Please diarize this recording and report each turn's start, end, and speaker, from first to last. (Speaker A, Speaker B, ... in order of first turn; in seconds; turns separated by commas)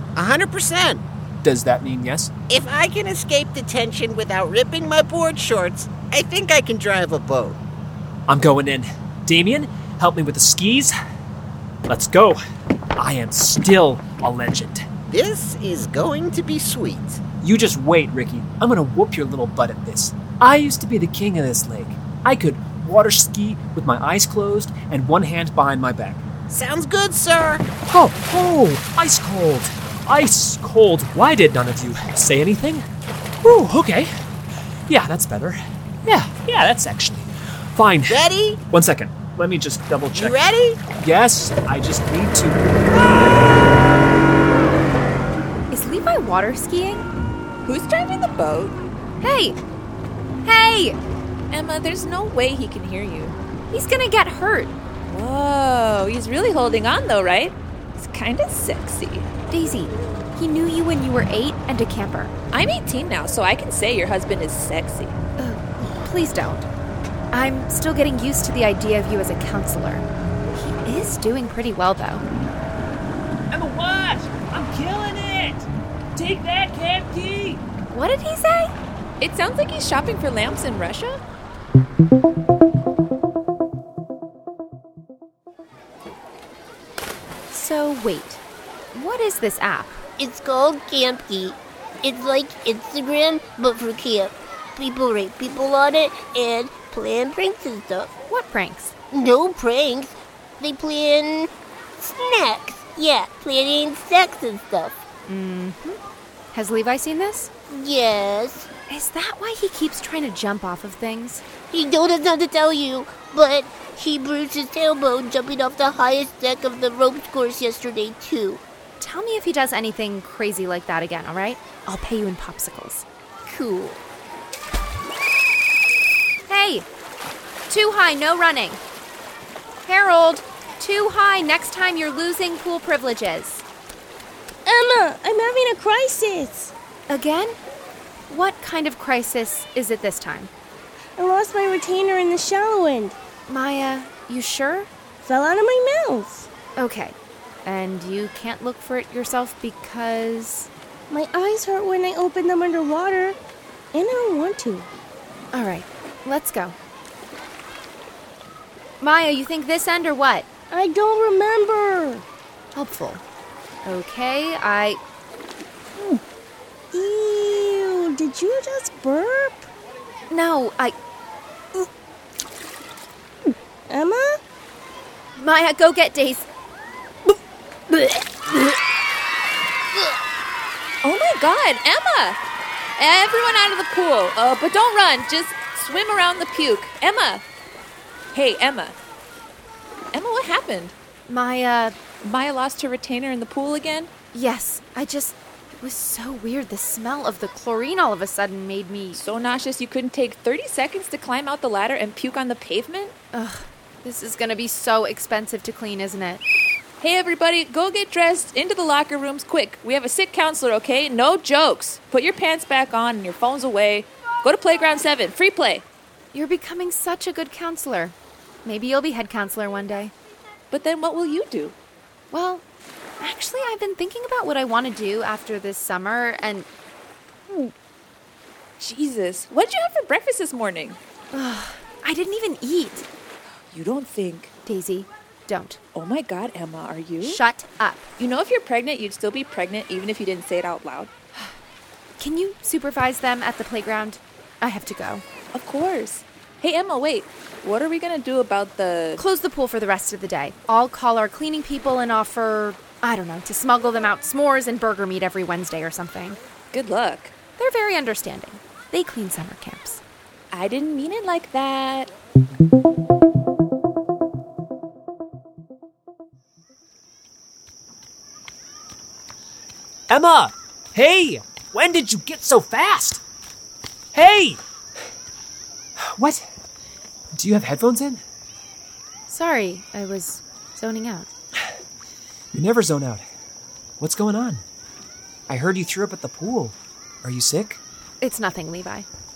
Speaker A: 0.1-1.0, Speaker B: 1.4-2.3, Speaker A: 2.5-7.6, Speaker B: 8.3-10.9, Speaker B: 11.9-12.4, Speaker B: 13.0-14.9, Speaker A: 15.1-17.2, Speaker B: 17.4-26.2, Speaker A: 26.5-27.6, Speaker B: 27.9-32.9, Speaker B: 33.4-34.1, Speaker B: 34.9-40.4, Speaker A: 38.1-38.6, Speaker A: 40.1-40.8, Speaker B: 41.0-42.6, Speaker A: 42.9-43.4, Speaker C: 45.7-47.1, Speaker D: 47.6-48.8, Speaker C: 49.2-49.6, Speaker C: 50.4-51.0, Speaker D: 51.5-53.4, Speaker C: 53.7-54.7, Speaker D: 55.1-59.2, Speaker C: 59.5-62.3, Speaker D: 62.5-65.2, Speaker C: 65.4-66.7, Speaker C: 67.3-72.2, Speaker B: 73.5-77.6, Speaker C: 77.9-78.7, Speaker D: 79.2-81.2, Speaker C: 87.5-88.4, Speaker C: 88.9-90.0, Speaker E: 90.2-98.1, Speaker C: 98.3-98.9, Speaker E: 99.1-101.5, Speaker E: 102.0-105.0, Speaker C: 105.3-106.0, Speaker C: 106.5-107.5, Speaker E: 107.7-108.7, Speaker C: 108.9-111.5, Speaker E: 111.7-118.6, Speaker C: 119.0-124.0, Speaker C: 126.5-126.8, Speaker C: 127.7-128.8, Speaker C: 129.8-133.6, Speaker F: 134.6-136.7, Speaker C: 137.1-137.6, Speaker C: 138.3-140.5, Speaker F: 141.2-143.2, Speaker C: 143.5-144.9, Speaker F: 145.2-146.5, Speaker C: 146.8-150.7, Speaker F: 151.1-153.4, Speaker F: 153.9-154.9, Speaker C: 155.5-156.8, Speaker C: 159.0-160.5, Speaker F: 160.7-162.2, Speaker C: 162.7-163.2, Speaker C: 163.8-165.0, Speaker F: 166.9-169.7, Speaker C: 170.3-170.9, Speaker F: 173.9-174.3, Speaker C: 175.4-176.5, Speaker D: 181.0-182.4, Speaker D: 183.0-187.4, Speaker D: 188.3-188.9, Speaker D: 190.1-190.9, Speaker C: 191.3-192.0, Speaker D: 192.2-194.1, Speaker C: 194.3-199.2, Speaker D: 199.1-203.1, Speaker C: 203.3-206.4, Speaker D: 207.0-215.8, Speaker C: 216.3-220.1, Speaker D: 220.7-221.7, Speaker C: 222.3-222.6, Speaker C: 223.2-226.7, Speaker D: 228.8-231.0, Speaker C: 231.3-233.1, Speaker D: 233.7-234.5, Speaker C: 234.6-235.8, Speaker D: 235.9-237.4, Speaker C: 237.3-238.1, Speaker D: 238.2-241.1, Speaker C: 242.2-245.2, Speaker D: 245.5-249.2, Speaker C: 249.2-256.4, Speaker D: 256.7-257.3, Speaker C: 257.6-260.0, Speaker D: 260.5-262.1, Speaker B: 270.1-273.2, Speaker B: 274.1-274.6, Speaker B: 276.1-276.4, Speaker B: 277.4-278.2, Speaker C: 279.3-281.3, Speaker B: 282.5-283.2, Speaker B: 284.0-284.6, Speaker B: 285.5-287.8, Speaker C: 288.2-289.1